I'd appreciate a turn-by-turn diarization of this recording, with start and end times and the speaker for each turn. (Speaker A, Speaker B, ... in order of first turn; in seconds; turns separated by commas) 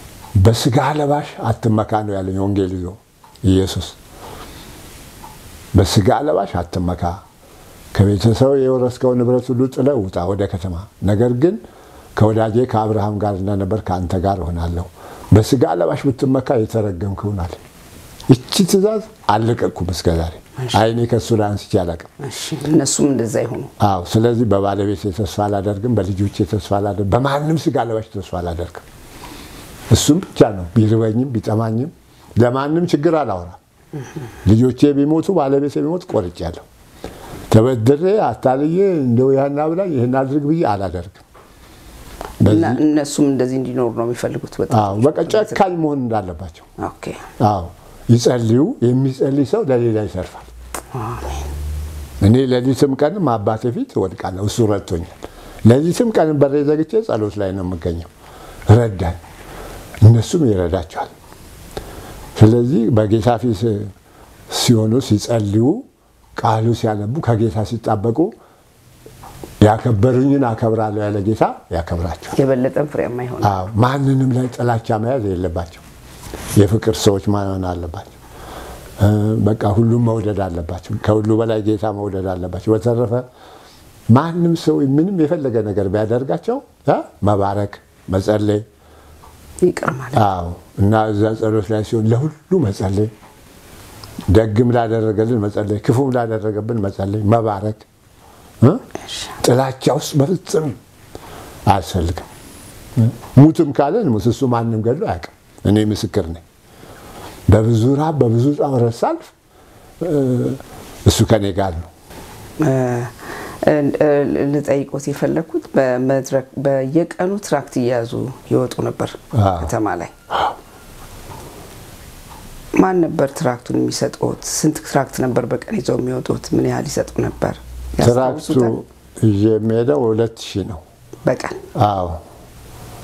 Speaker A: 0.3-4.0, Speaker A: 5.7-7.2, Speaker A: 7.9-11.6, Speaker A: 12.1-17.6, Speaker A: 18.3-22.1, Speaker B: 22.2-23.7, Speaker A: 23.8-28.8, Speaker A: 29.9-33.6, Speaker A: 34.4-36.6, Speaker A: 37.5-41.2, Speaker A: 42.4-42.8, Speaker B: 42.4-45.6, Speaker A: 44.7-46.7, Speaker B: 46.8-47.2, Speaker A: 47.4-50.5, Speaker B: 50.9-51.5, Speaker A: 52.2-58.1, Speaker A: 58.7-59.2, Speaker A: 60.0-61.1, Speaker A: 62.4-63.9, Speaker A: 64.5-65.8, Speaker A: 66.4-68.3, Speaker A: 69.6-72.3, Speaker B: 72.3-73.6, Speaker A: 73.4-75.8, Speaker A: 76.5-78.2, Speaker A: 79.0-83.3, Speaker A: 84.1-88.6, Speaker B: 89.6-90.2, Speaker A: 90.1-93.1, Speaker A: 94.3-97.8, Speaker B: 99.1-99.3, Speaker A: 99.4-100.8, Speaker A: 101.7-102.3, Speaker A: 103.0-106.4, Speaker A: 107.5-109.3, Speaker A: 110.0-111.9, Speaker B: 112.6-120.1, Speaker A: 119.3-119.7, Speaker B: 122.7-128.8, Speaker A: 128.0-130.8, Speaker B: 131.2-131.6, Speaker A: 131.7-132.2